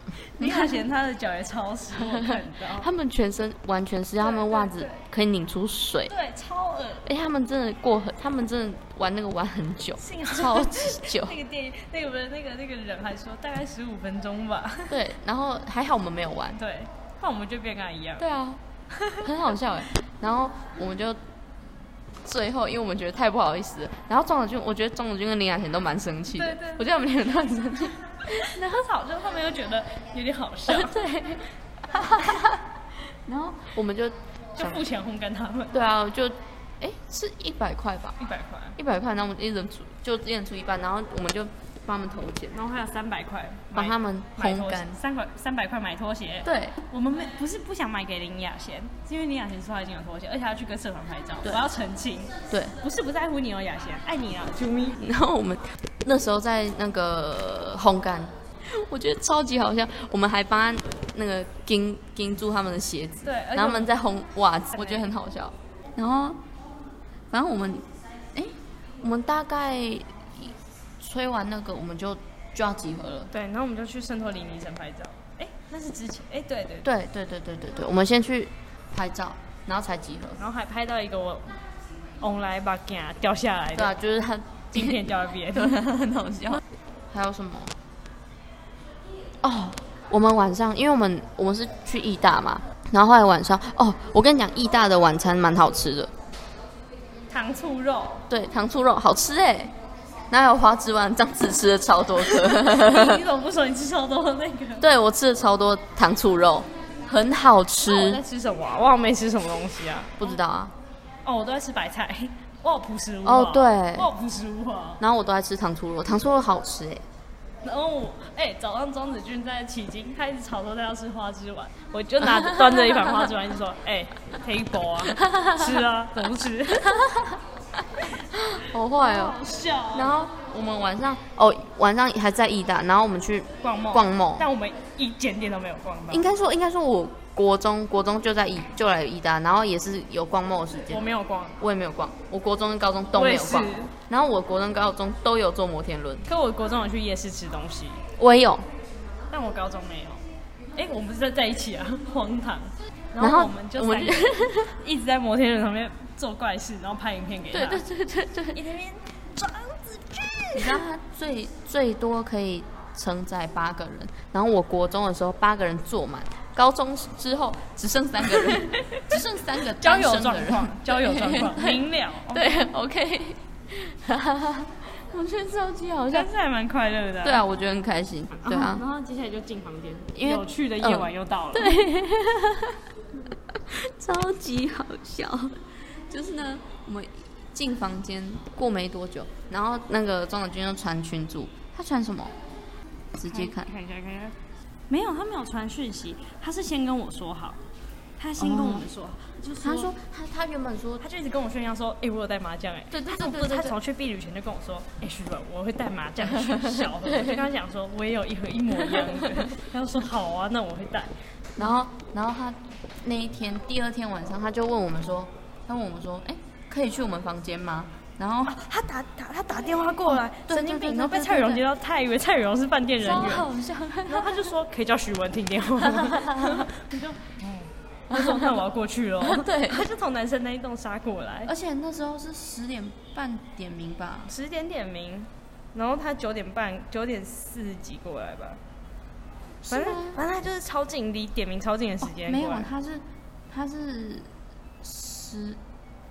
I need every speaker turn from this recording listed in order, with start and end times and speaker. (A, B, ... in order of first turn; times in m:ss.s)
0:00.3-0:02.9 A
0:00.4-0:00.8 B
0:02.0-0:06.1 B
0:04.2-0:05.0 A
0:06.1-0:07.1 A
0:07.0-0:11.4 B
0:10.0-0:15.0 A
0:14.9-0:16.6 B
0:16.6-0:18.3 A
0:18.2-0:18.6 B
0:18.9-0:19.3 A
0:19.2-0:21.2 B
0:22.2-0:28.6 B
0:26.3-0:26.8 A
0:28.3-0:31.0 A
0:30.7-0:34.8 B
0:34.6-0:35.8 A
0:35.7-0:38.2 B
0:38.2-0:38.8 A
0:38.8-0:42.6 B
0:42.5-0:55.0 A
0:43.7-0:45.0 B
0:46.4-0:46.8 B
0:52.5-0:52.8 B
0:55.0-1:06.4 B
1:03.2-1:03.9 A
1:04.7-1:05.1 A
1:07.3-1:13.3 B
1:13.3-1:16.9 A
1:16.8-1:20.4 B
1:20.4-1:21.6 A
1:22.2-1:24.0 A
1:23.7-1:25.0 B
1:24.7-1:25.8 A
1:25.5-1:27.7 B
1:29.4-1:36.1 B
1:37.3-1:38.3 A
1:38.3-1:39.7 B
1:40.3-1:43.2 B
1:42.3-1:44.8 A
1:44.8-1:48.2 B
1:47.8-1:50.4 A
1:50.2-1:50.7 B
1:51.2-1:55.0 A
1:53.2-1:54.1 B
1:55.0-1:57.0 B
1:57.6-2:07.0 A
2:02.2-2:03.3 B
2:05.2-2:05.8 B
2:06.7-2:07.4 B
2:08.2-2:09.4 B
2:09.0-2:10.2 A
2:09.9-2:14.5 B
2:13.6-2:16.3 A
2:16.1-2:21.0 B
2:20.9-2:21.6 A
2:21.6-2:26.3 B
2:23.1-2:23.9 A
2:26.2-2:28.0 A
2:28.2-2:28.6 B
2:29.3-2:30.2 A
2:30.8-2:37.8 A
2:33.2-2:34.7 B
2:37.5-2:38.6 B
2:38.5-2:40.8 A
2:40.5-2:56.3 B
2:48.3-2:49.2 A
2:49.8-2:52.6 A
2:56.1-2:57.4 A
2:57.2-2:58.8 B
2:58.3-3:01.8 A
3:00.2-3:02.8 B
3:03.5-3:12.3 B
3:13.2-3:13.7 B
3:13.3-3:14.4 A
3:14.9-3:17.6 A
3:18.2-3:19.9 A
3:18.4-3:18.9 B
3:19.6-3:21.0 B
3:21.0-3:31.1 A
3:22.9-3:23.8 B
3:26.3-3:27.5 B
3:28.8-3:29.6 B
3:31.6-3:38.6 B
3:38.5-3:43.5 A
3:40.1-3:41.6 B
3:43.0-3:44.5 B
3:44.1-3:51.5 A
3:45.9-3:46.7 B
3:48.1-3:48.6 B
3:49.2-3:49.9 B
3:51.5-3:54.3 B
3:54.3-3:58.6 A
3:59.7-4:00.2 B
3:59.7-4:02.7 A
4:02.0-4:04.3 B
4:04.8-4:05.6 B